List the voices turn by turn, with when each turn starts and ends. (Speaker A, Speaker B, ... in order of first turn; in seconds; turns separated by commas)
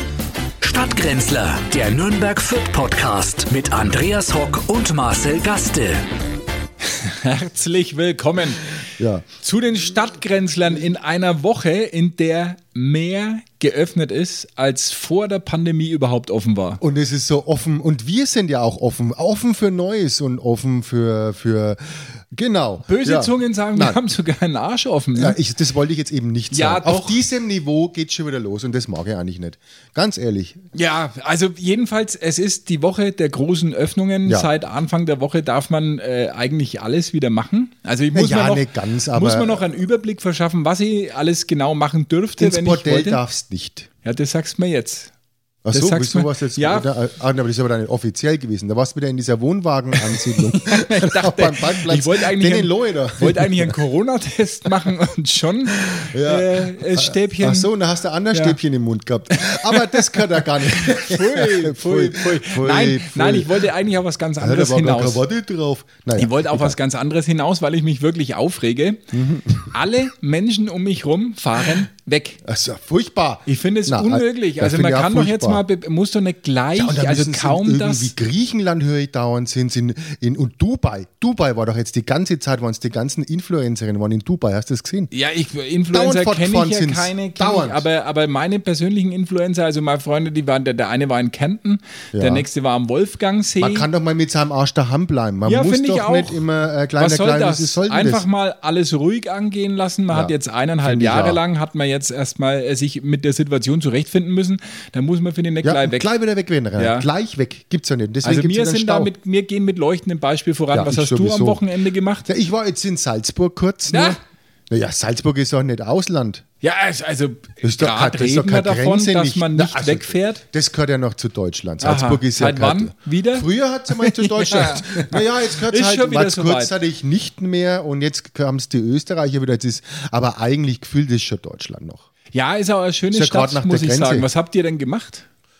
Speaker A: 0.6-6.1, Speaker B: 6.9-8.6, Speaker C: 9.0-9.2, Speaker B: 9.4-16.8, Speaker C: 16.8-24.0, Speaker B: 22.9-25.4, Speaker C: 25.1-30.6, Speaker B: 26.5-27.2, Speaker B: 30.7-43.2, Speaker C: 38.1-39.7, Speaker C: 42.4-43.9, Speaker B: 44.0-45.1, Speaker C: 45.6-53.7, Speaker B: 45.7-46.9, Speaker B: 50.2-57.7, Speaker C: 55.8-63.5, Speaker B: 58.3-58.6, Speaker B: 59.4-65.2, Speaker C: 64.4-66.8, Speaker B: 66.2-69.1, Speaker C: 69.1-69.7, Speaker B: 69.7-72.4, Speaker C: 72.4-75.6, Speaker B: 73.5-78.1, Speaker C: 76.7-85.1, Speaker B: 85.1-93.9, Speaker C: 85.9-87.8, Speaker C: 92.1-92.4, Speaker C: 93.6-98.2, Speaker B: 95.4-96.4, Speaker B: 97.0-106.1, Speaker C: 100.1-101.4, Speaker C: 105.6-109.1, Speaker B: 106.8-107.1, Speaker B: 108.2-112.3, Speaker C: 110.7-111.6, Speaker C: 112.2-114.2, Speaker B: 113.9-114.2, Speaker C: 114.7-116.4, Speaker B: 116.6-120.4, Speaker C: 117.6-132.1, Speaker B: 121.8-126.7, Speaker B: 132.3-135.2, Speaker C: 133.1-134.3